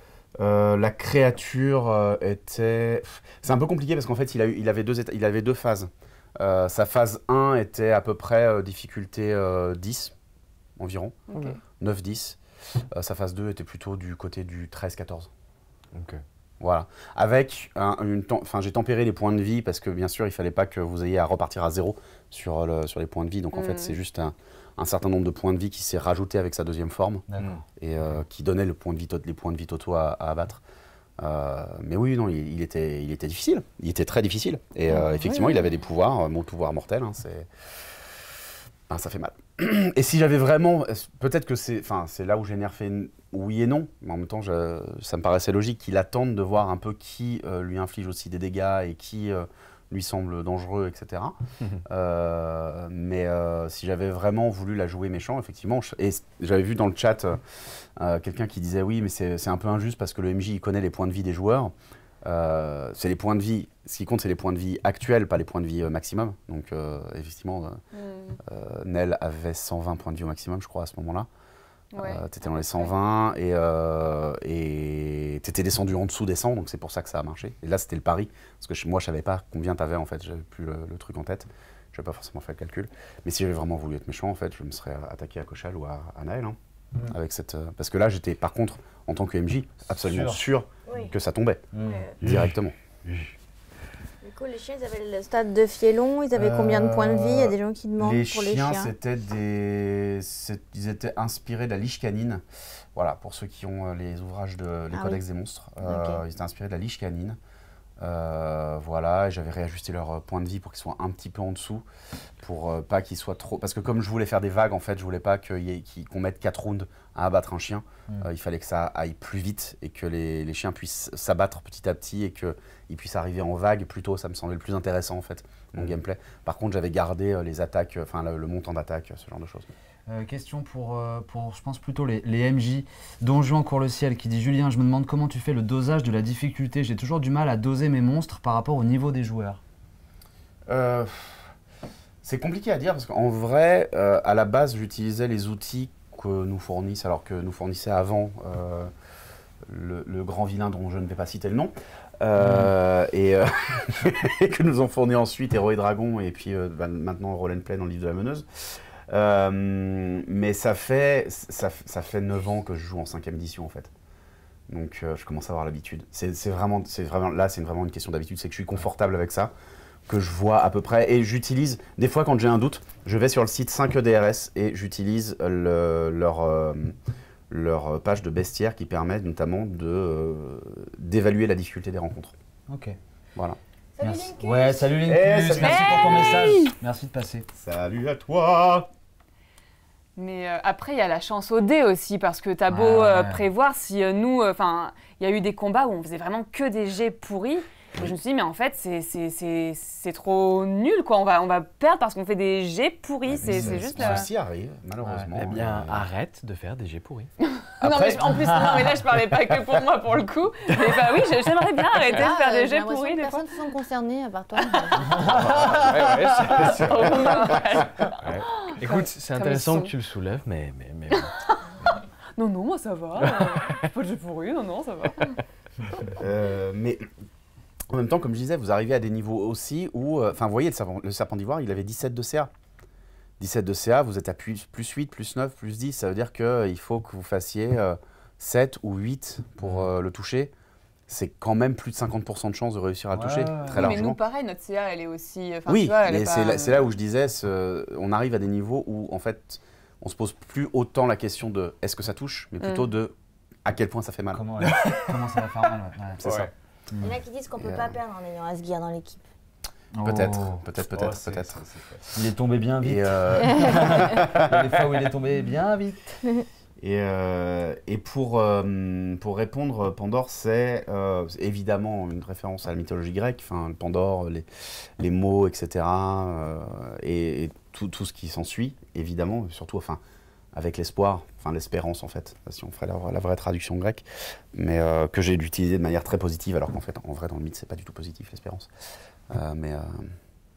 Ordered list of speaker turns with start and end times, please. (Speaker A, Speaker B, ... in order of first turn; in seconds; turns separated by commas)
Speaker A: 0.4-10.1, Speaker A: 10.8-11.2, Speaker B: 11.3-11.6, Speaker A: 11.8-12.4, Speaker A: 12.9-15.3, Speaker C: 15.9-16.2, Speaker A: 16.6-30.6, Speaker B: 23.5-23.9, Speaker D: 27.3-27.6, Speaker A: 31.2-37.5, Speaker B: 35.3-35.6, Speaker A: 38.9-57.4, Speaker A: 58.0-61.7, Speaker A: 62.2-67.8, Speaker B: 67.9-68.4, Speaker A: 68.4-71.3, Speaker B: 71.9-72.2, Speaker A: 72.0-91.6, Speaker D: 90.0-90.4, Speaker E: 90.9-91.1, Speaker D: 91.7-92.0, Speaker E: 91.9-92.1, Speaker A: 92.2-92.7, Speaker C: 92.2-92.5, Speaker C: 93.1-93.3, Speaker E: 94.2-98.9, Speaker A: 96.3-102.4, Speaker A: 102.9-107.4, Speaker E: 104.9-105.2, Speaker E: 105.8-106.2, Speaker A: 108.0-111.8, Speaker A: 112.4-129.7, Speaker D: 130.1-139.6, Speaker A: 140.7-141.5, Speaker A: 142.2-148.9, Speaker A: 149.7-163.9, Speaker D: 152.4-152.7, Speaker A: 164.7-169.5, Speaker A: 170.1-176.9, Speaker A: 177.5-182.3, Speaker D: 182.7-183.0, Speaker E: 184.0-184.9, Speaker D: 184.0-187.5, Speaker A: 185.0-186.6, Speaker B: 185.5-186.7, Speaker A: 187.5-188.9, Speaker B: 190.2-204.3, Speaker D: 192.7-193.4, Speaker A: 203.2-206.0, Speaker C: 203.5-204.2, Speaker C: 205.0-207.3, Speaker B: 207.4-213.4, Speaker A: 207.8-208.7, Speaker E: 212.1-215.2, Speaker B: 214.6-215.0, Speaker C: 215.1-217.0, Speaker D: 215.2-216.7, Speaker A: 216.5-217.9, Speaker B: 216.6-219.9, Speaker C: 218.2-221.3, Speaker B: 221.1-221.6, Speaker B: 222.3-225.4, Speaker C: 223.2-223.9, Speaker A: 226.1-227.1, Speaker A: 227.9-232.5, Speaker A: 233.4-240.5, Speaker A: 241.1-244.2, Speaker D: 243.1-244.0, Speaker B: 243.7-246.8, Speaker A: 245.7-254.7, Speaker B: 252.6-252.9, Speaker D: 254.3-256.2, Speaker C: 254.6-255.2, Speaker C: 256.2-256.5, Speaker A: 256.2-256.5, Speaker D: 256.9-257.2, Speaker E: 257.0-259.2, Speaker A: 257.6-258.0, Speaker D: 259.9-260.6, Speaker A: 260.0-261.6, Speaker C: 260.8-262.1, Speaker D: 262.1-266.2, Speaker A: 262.8-264.6, Speaker E: 263.4-264.0, Speaker A: 266.8-280.0, Speaker A: 280.5-288.7, Speaker A: 289.3-290.1